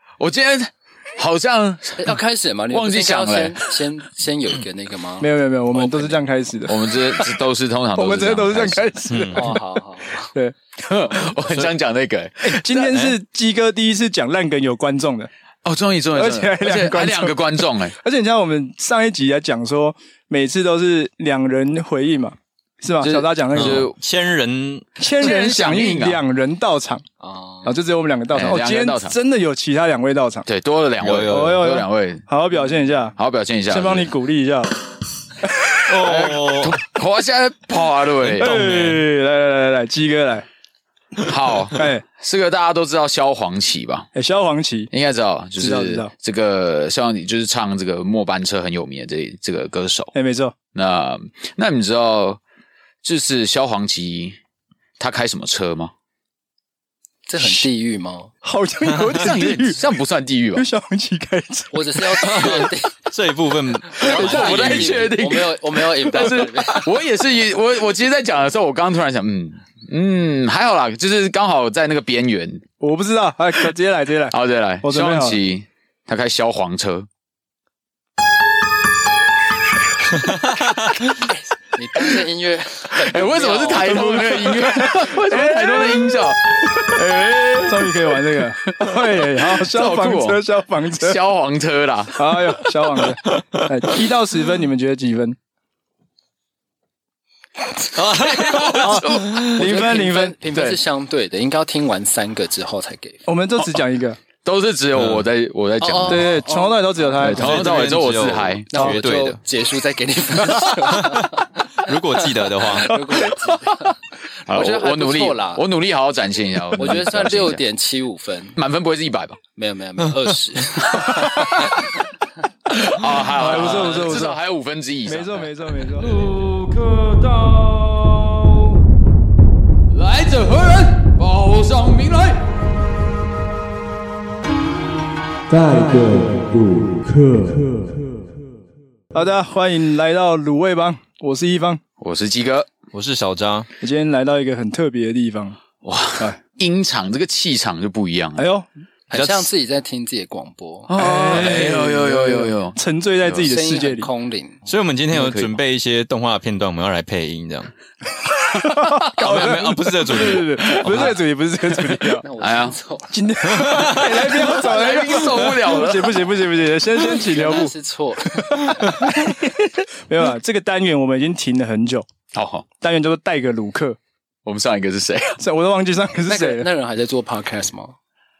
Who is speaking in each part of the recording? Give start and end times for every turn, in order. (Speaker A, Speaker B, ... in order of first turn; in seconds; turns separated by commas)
Speaker A: 0.2-2.1, Speaker B: 2.0-6.2, Speaker A: 2.7-3.7, Speaker C: 5.2-7.3, Speaker A: 6.7-9.1, Speaker C: 7.9-9.6, Speaker D: 9.1-9.4, Speaker B: 9.3-10.3, Speaker A: 10.8-13.0, Speaker C: 12.4-15.3, Speaker D: 12.9-13.2, Speaker A: 15.6-17.9, Speaker C: 16.1-17.3, Speaker C: 18.0-23.9, Speaker A: 23.0-23.9, Speaker D: 23.5-24.9, Speaker C: 25.0-27.0, Speaker A: 25.2-26.2, Speaker B: 27.2-27.8, Speaker C: 27.6-30.5, Speaker A: 28.3-29.1, Speaker A: 30.5-32.2, Speaker D: 31.0-31.6, Speaker C: 31.3-33.1, Speaker A: 33.2-34.1, Speaker C: 33.7-34.8, Speaker C: 35.4-35.7, Speaker D: 35.9-36.8, Speaker A: 36.0-38.7, Speaker C: 38.4-40.5, Speaker D: 38.4-39.0, Speaker A: 41.2-44.1, Speaker C: 41.7-42.0, Speaker C: 44.1-44.9, Speaker A: 44.9-50.1, Speaker C: 45.6-46.1, Speaker C: 50.1-50.5, Speaker A: 50.7-52.4, Speaker A: 53.0-54.4, Speaker A: 55.0-55.9, Speaker B: 57.3-58.3, Speaker C: 58.4-59.8, Speaker A: 59.1-60.6, Speaker C: 60.5-62.5, Speaker B: 61.7-63.0, Speaker D: 62.3-65.0, Speaker B: 63.9-66.9, Speaker A: 64.0-72.6, Speaker C: 64.1-64.8, Speaker C: 72.8-75.4, Speaker A: 74.3-77.1, Speaker B: 81.7-84.4, Speaker A: 83.0-90.4, Speaker C: 83.8-86.2, Speaker C: 87.6-91.2, Speaker A: 91.0-92.5, Speaker C: 92.2-95.3, Speaker D: 97.9-99.5, Speaker A: 98.2-99.5, Speaker C: 98.8-100.3, Speaker B: 99.3-103.2, Speaker A: 100.5-100.8, Speaker C: 103.3-104.2, Speaker A: 104.4-106.4, Speaker D: 105.0-105.3, Speaker B: 105.8-107.0, Speaker C: 106.1-108.0, Speaker D: 107.2-109.4, Speaker A: 107.2-108.7, Speaker B: 108.7-112.0, Speaker D: 111.0-111.3, Speaker D: 111.8-113.0, Speaker B: 112.6-115.6, Speaker A: 114.5-117.6, Speaker B: 116.8-118.6, Speaker A: 118.5-119.4, Speaker B: 119.5-121.5, Speaker A: 121.0-121.8, Speaker A: 122.8-128.8, Speaker C: 122.8-124.4, Speaker C: 125.0-126.2, Speaker A: 129.9-132.7, Speaker D: 135.5-137.8, Speaker C: 139.1-141.8, Speaker A: 142.0-142.7, Speaker D: 142.9-143.7, Speaker C: 143.8-145.6, Speaker A: 145.8-148.5, Speaker C: 148.4-148.7, Speaker B: 149.1-151.7, Speaker A: 150.9-153.4, Speaker C: 150.9-154.1, Speaker B: 153.3-154.6, Speaker D: 154.7-157.7, Speaker A: 155.1-155.6, Speaker C: 158.6-162.2, Speaker A: 158.7-159.5, Speaker D: 159.2-161.2, Speaker A: 160.7-161.1, Speaker A: 161.8-162.7, Speaker B: 162.2-163.2, Speaker C: 163.1-167.7, Speaker D: 163.5-164.4, Speaker A: 164.2-166.3, Speaker B: 166.9-169.1, Speaker C: 168.2-172.1, Speaker A: 172.3-172.7, Speaker C: 172.8-174.0, Speaker A: 174.4-175.4, Speaker C: 175.4-176.7, Speaker B: 176.2-178.0